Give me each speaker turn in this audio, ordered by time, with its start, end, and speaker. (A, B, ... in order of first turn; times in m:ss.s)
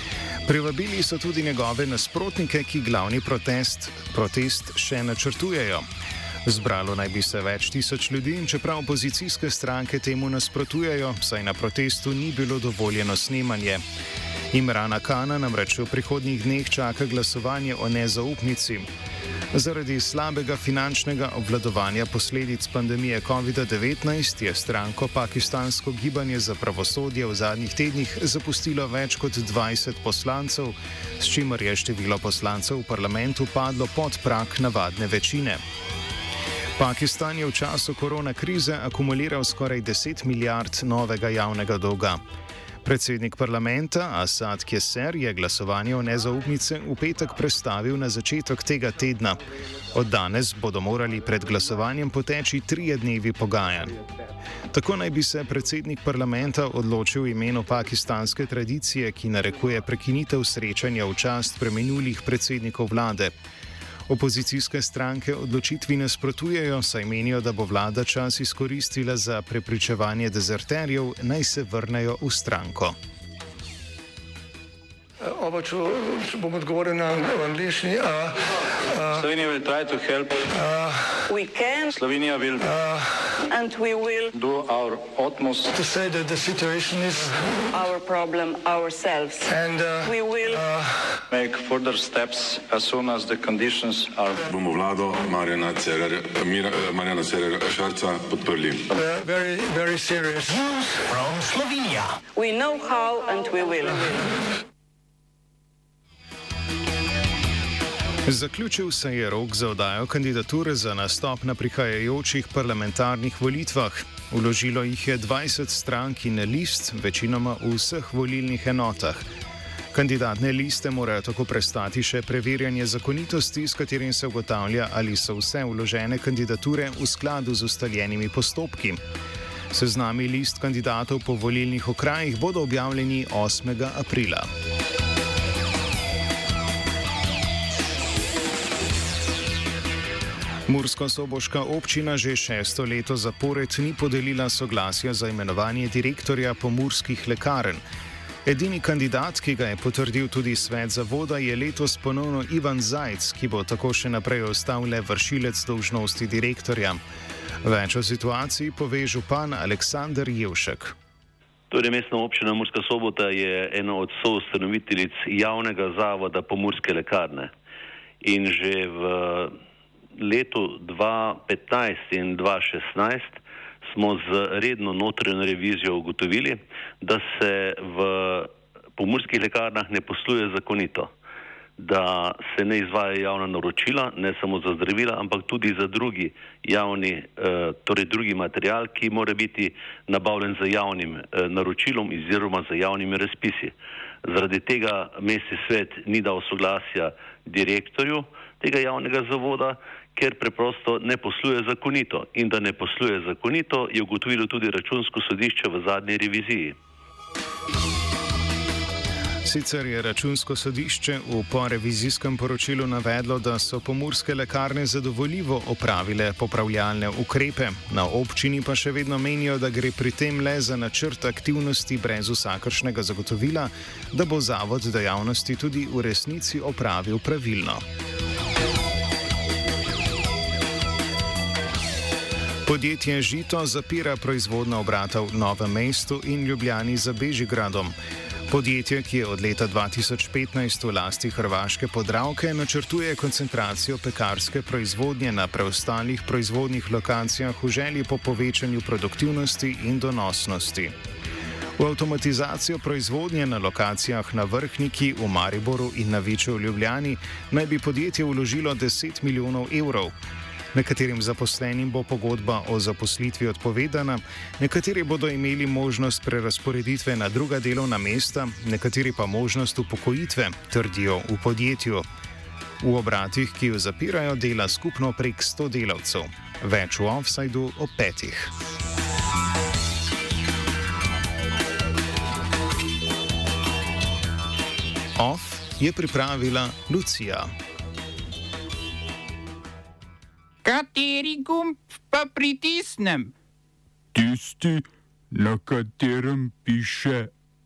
0:00.4-0:05.8 A
0:06.4-0:13.8 A
0:14.5-0:18.9 A
0:19.5-0:35.6 A
0:36.8-0:42.2 A
0:42.8-0:49.4 A
0:49.9-0:54.0 A
0:54.7-1:03.3 A
1:04.1-1:12.9 A
1:15.3-1:18.4 B
1:18.9-1:19.2 B
1:19.2-1:20.5 C
1:20.6-1:21.1 B
1:21.3-1:21.9 D
1:21.9-1:22.7 C
1:22.8-1:23.2 B
1:23.4-1:24.3 D
1:24.3-1:25.7 C
1:25.7-1:27.6 B
1:27.7-1:30.6 D
1:29.5-1:31.0 B
1:31.3-1:34.4 C
1:34.4-1:38.9 E
1:38.9-1:41.6 B
1:42.3-1:44.2 D
1:48.3-1:59.2 A
1:59.9-2:09.0 A
2:09.7-2:14.5 A
2:20.7-2:27.8 A
2:28.4-2:37.0 A
2:37.6-2:40.9 A
2:41.7-2:47.5 F
2:48.2-2:49.5 F
2:50.2-3:01.1 F
3:01.8-3:13.7 F
3:14.2-3:26.8 F
3:29.4-3:47.8 A
3:52.6-3:57.9 A
3:58.5-4:10.9 A
4:11.8-4:20.1 A
4:20.7-4:32.0 A
4:32.8-4:38.5 A
4:45.2-4:47.5 A
4:50.6-4:53.3 G
4:54.1-4:57.3 H